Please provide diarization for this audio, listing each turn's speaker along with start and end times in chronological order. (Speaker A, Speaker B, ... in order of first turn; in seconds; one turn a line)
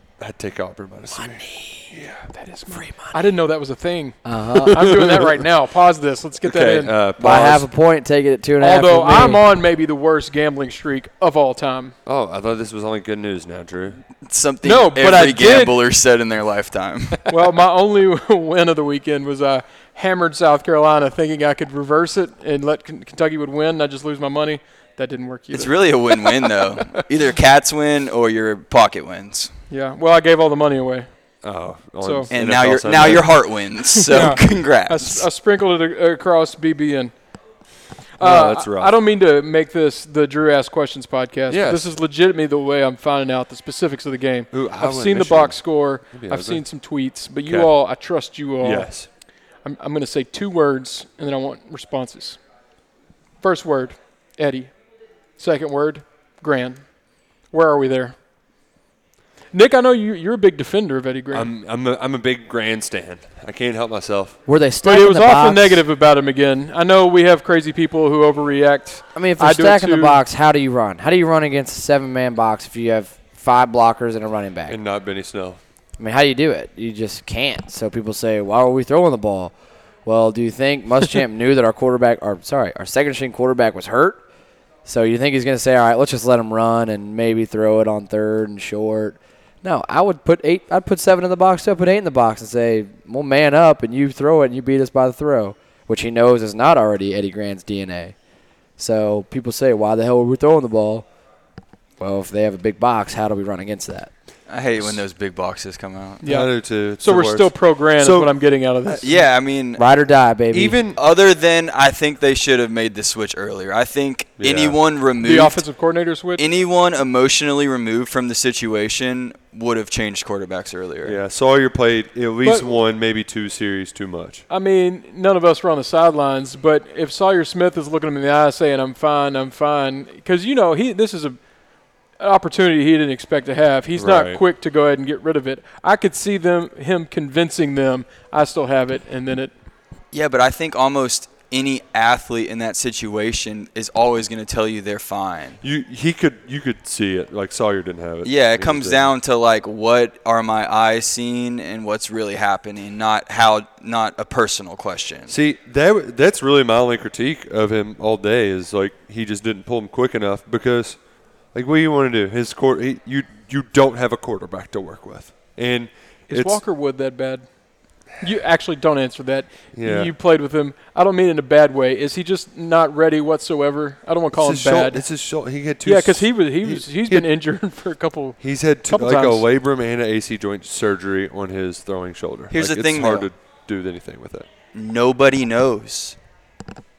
Speaker A: 0.2-2.3
Speaker B: 2.3-6.9
Speaker C: 4.2-4.9
Speaker A: 4.9-5.3
Speaker A: 6.5-7.7
Speaker C: 7.2-9.4
Speaker B: 8.6-11.9
Speaker A: 12.1-14.0
Speaker D: 14.3-17.3
Speaker B: 14.6-15.8
Speaker B: 17.3-26.5
Speaker D: 25.5-29.5
Speaker B: 29.7-31.1
Speaker A: 31.4-33.4
Speaker B: 32.0-32.3
Speaker D: 32.3-35.3
Speaker B: 34.0-37.1
Speaker A: 38.2-39.0
Speaker B: 38.2-48.9
Speaker A: 41.5-41.9
Speaker A: 44.5-46.6
Speaker A: 47.5-47.7
Speaker A: 48.6-49.1
Speaker B: 49.6-52.4
Speaker B: 53.4-54.7
Speaker B: 55.4-56.9
Speaker B: 57.5-58.2
Speaker B: 59.5-61.5
Speaker A: 61.3-64.4
Speaker C: 64.5-65.8
Speaker B: 64.8-70.2
Speaker C: 69.2-74.8
Speaker A: 74.7-75.6
Speaker C: 76.0-79.5
Speaker C: 80.0-84.2
Speaker C: 84.8-98.2
Speaker C: 98.8-101.1
Speaker C: 102.0-104.1
Speaker D: 104.5-106.2
Speaker A: 106.2-108.3
Speaker B: 106.2-109.2
Speaker D: 109.0-109.8
Speaker C: 109.8-110.8
Speaker A: 110.5-111.0
Speaker D: 111.0-115.6
Speaker A: 114.4-114.8
Speaker B: 115.2-116.5
Speaker D: 116.4-121.2
Speaker A: 121.0-124.4
Speaker B: 122.4-122.7
Speaker B: 124.5-131.4
Speaker B: 132.2-139.5
Speaker A: 134.0-134.4
Speaker D: 140.1-145.6
Speaker A: 145.6-149.1
Speaker D: 148.2-155.3
Speaker A: 155.3-161.0
Speaker A: 161.5-166.6
Speaker B: 166.3-167.5
Speaker B: 168.2-175.0
Speaker A: 169.7-170.1
Speaker A: 174.3-177.3
Speaker B: 175.8-178.4
Speaker A: 178.4-184.5
Speaker B: 178.9-179.4
Speaker D: 182.5-183.3
Speaker D: 184.7-186.2